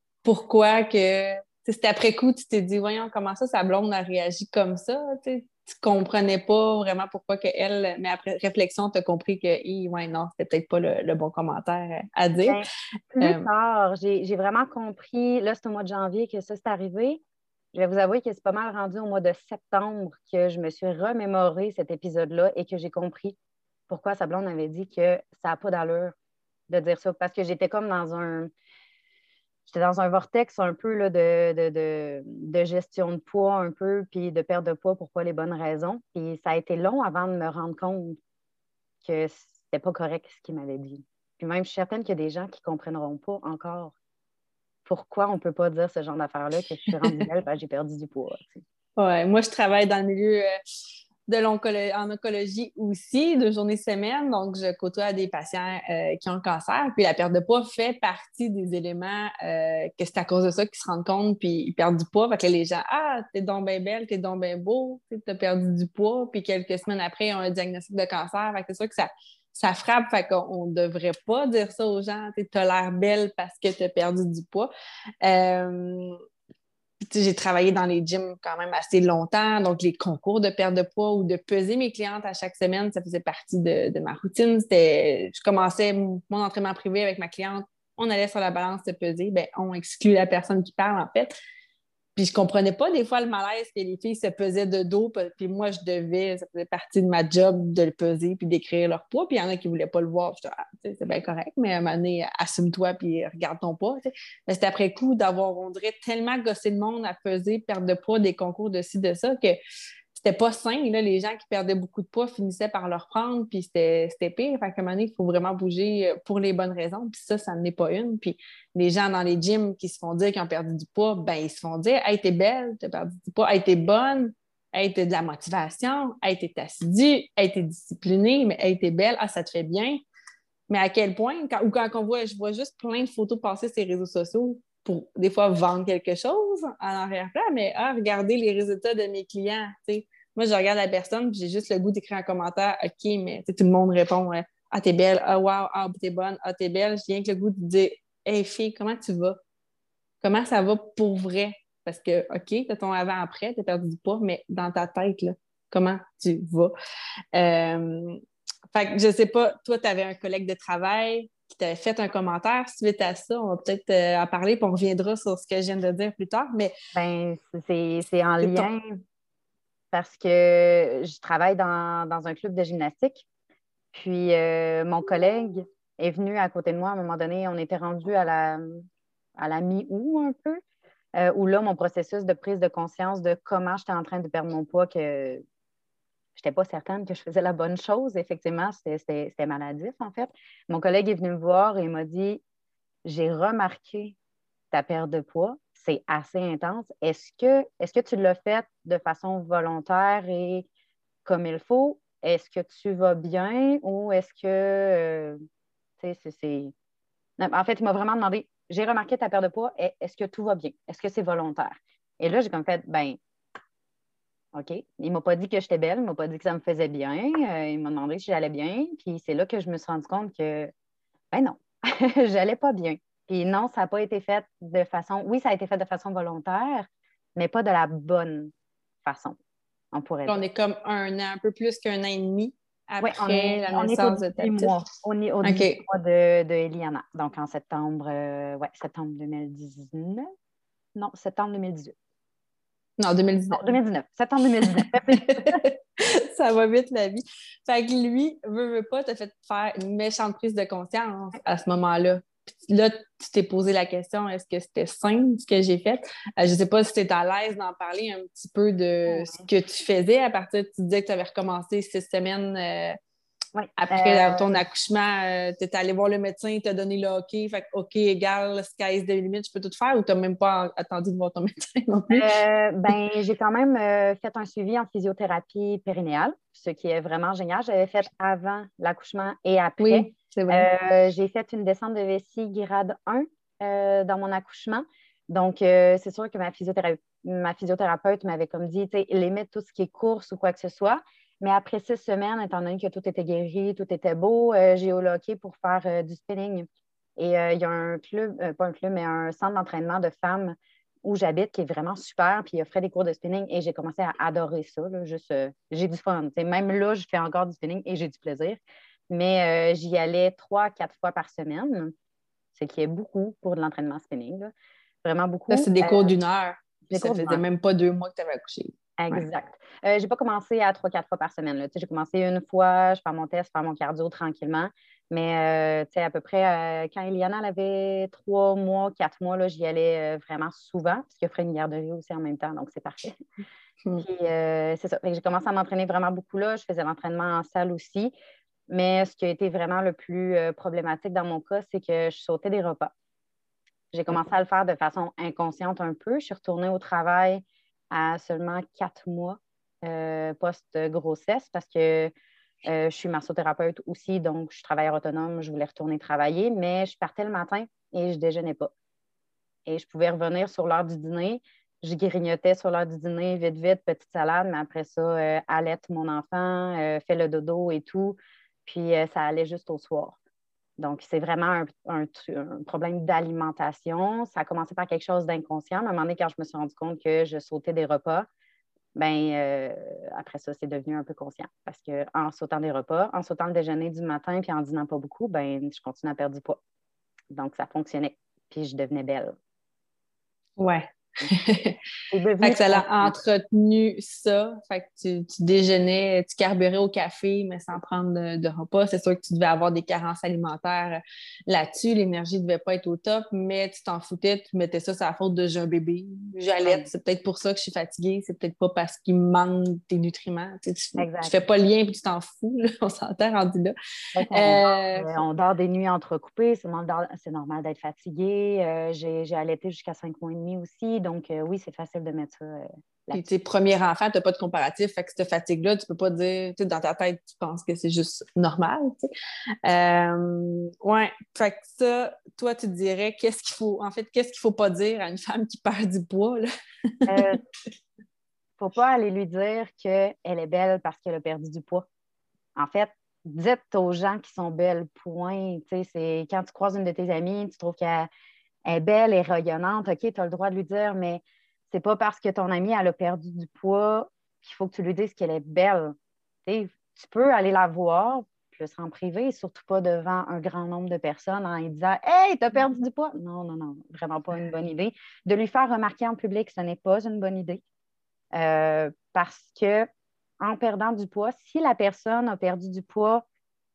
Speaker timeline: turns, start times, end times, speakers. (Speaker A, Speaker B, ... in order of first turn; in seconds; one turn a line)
Speaker A: 0.2-12.6
Speaker B: 12.5-17.2
Speaker B: 17.7-23.4
Speaker B: 23.9-26.1
Speaker B: 26.7-28.5
Speaker B: 29.7-38.2
Speaker B: 39.0-44.0
Speaker B: 44.9-48.6
Speaker A: 49.0-50.5
Speaker A: 51.3-74.7
Speaker A: 75.2-76.2
Speaker A: 77.0-91.3
Speaker A: 92.2-109.6
Speaker A: 110.1-130.0
Speaker A: 130.7-149.4
Speaker A: 150.2-156.7
Speaker A: 157.3-158.2
Speaker A: 158.7-166.7
Speaker B: 166.9-169.0
Speaker A: 168.4-168.7
Speaker B: 169.9-173.3
Speaker B: 173.9-178.8
Speaker B: 179.4-180.6
Speaker B: 181.2-185.4
Speaker B: 186.4-192.4
Speaker B: 193.1-194.2
Speaker B: 194.7-200.7
Speaker B: 201.2-205.4
Speaker B: 206.0-206.7
Speaker B: 207.4-213.2
Speaker B: 214.5-220.7
Speaker B: 221.3-228.5
Speaker B: 229.0-229.4
Speaker B: 229.9-230.4
Speaker A: 230.3-234.7
Speaker B: 233.0-240.3
Speaker A: 235.4-235.8
Speaker B: 240.9-241.9
Speaker A: 243.0-243.8
Speaker B: 243.5-245.6
Speaker A: 244.6-263.0
Speaker B: 259.1-259.4
Speaker B: 263.6-264.6
Speaker A: 263.8-272.3
Speaker B: 272.1-311.9
Speaker A: 279.8-280.7
Speaker B: 312.6-314.5
Speaker B: 315.0-316.1
Speaker A: 315.5-319.2
Speaker B: 316.9-317.4
Speaker B: 319.0-333.2
Speaker B: 334.0-338.1
Speaker B: 338.7-342.9
Speaker B: 343.9-352.1
Speaker B: 352.7-358.7
Speaker B: 359.7-370.2
Speaker B: 370.8-378.3
Speaker B: 378.9-386.6
Speaker B: 387.3-389.4
Speaker A: 390.6-391.8
Speaker B: 392.1-393.1
Speaker A: 392.4-413.7
Speaker B: 411.0-411.3
Speaker B: 414.2-423.3
Speaker A: 414.3-415.2
Speaker A: 423.1-429.1
Speaker A: 429.6-436.5
Speaker B: 437.1-437.4
Speaker A: 437.1-437.4
Speaker B: 438.6-441.9
Speaker B: 442.6-448.1
Speaker B: 448.7-455.9
Speaker B: 456.5-467.6
Speaker B: 468.3-469.9
Speaker B: 470.4-473.3